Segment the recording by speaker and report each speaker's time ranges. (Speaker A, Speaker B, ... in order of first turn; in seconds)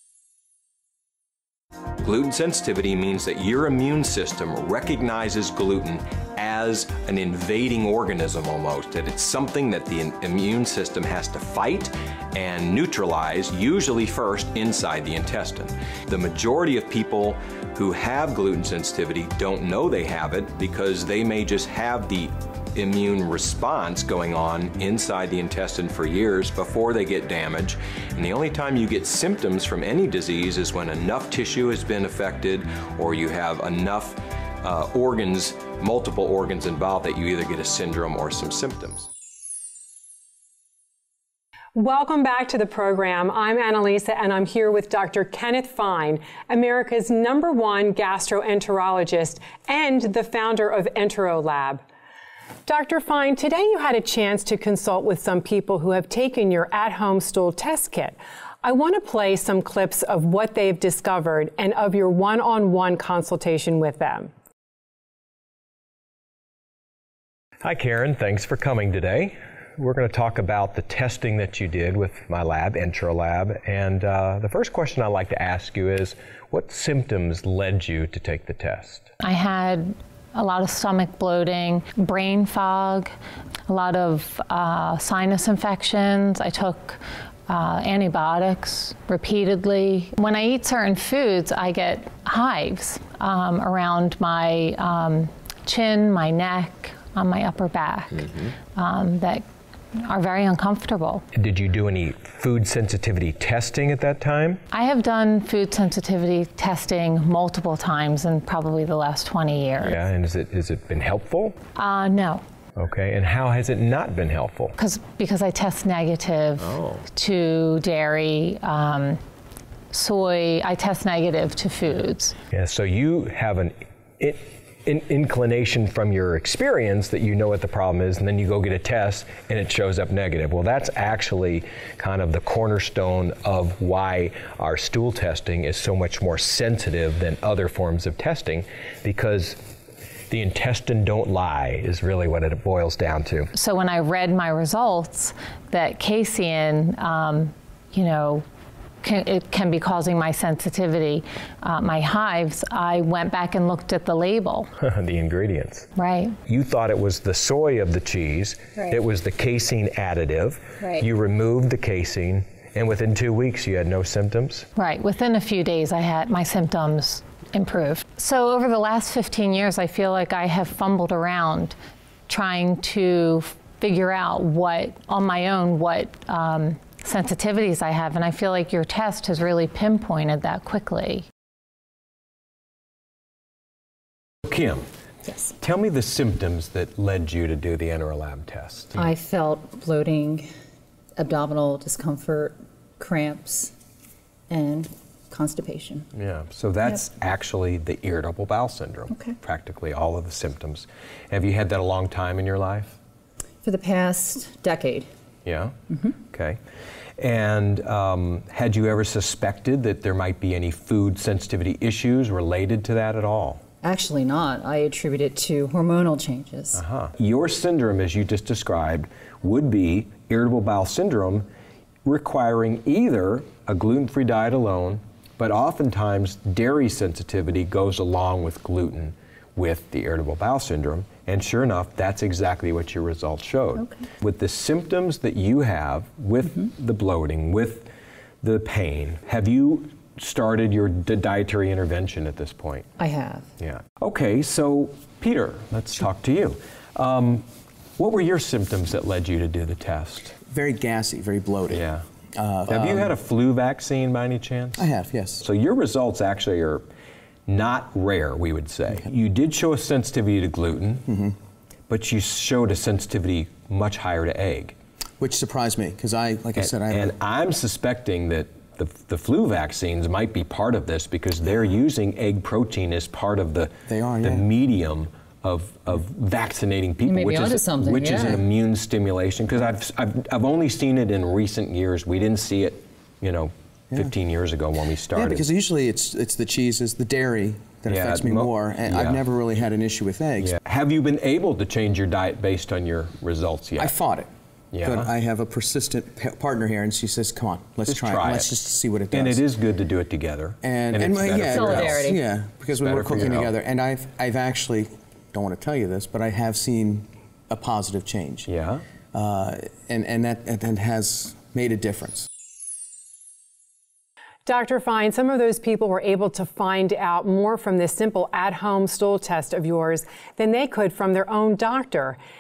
Speaker A: 2.0-39.1, 67.6-79.1, 101.3-104.6, 109.8-111.6, 112.8-114.8, 116.6-117.0, 122.5-139.6, 140.3-143.5, 154.8-155.9, 156.4-164.7, 184.5-184.8, 185.5-189.0, 196.1-203.0, 205.4-206.6, 207.2-213.6, 216.7-221.5, 222.1-237.9, 238.4-242.9, 243.6-247.4, 248.0-250.4, 251.7-252.0, 252.7-254.9, 255.4-256.8, 257.5-261.1, 261.9-264.8, 266.6-285.5, 287.9-289.2, 290.4-293.9, 294.7-295.1, 297.9-298.5, 299.1-302.2, 302.8-303.5, 308.5-308.8
Speaker B: 41.8-51.8, 52.7-64.3, 314.4-322.2
Speaker C: 79.2-83.1, 83.7-99.4, 100.0-101.2, 104.7-110.0, 111.8-112.4, 114.8-119.2, 119.9-122.3, 143.5-148.4, 149.0-154.7, 156.0-156.4, 164.8-171.8, 172.3-181.3
Speaker D: 188.9-190.5, 191.2-193.7, 194.5-196.1, 199.1-199.4, 203.6-205.1, 205.9-206.2, 213.8-216.8, 233.8-234.0, 243.0-243.5, 277.0-278.4, 301.4-302.2
Speaker E: 250.5-253.1, 254.8-255.4, 265.2-267.1, 273.9-274.4, 285.2-290.6, 293.8-294.3, 294.8-299.4, 300.6-308.5, 309.1-312.3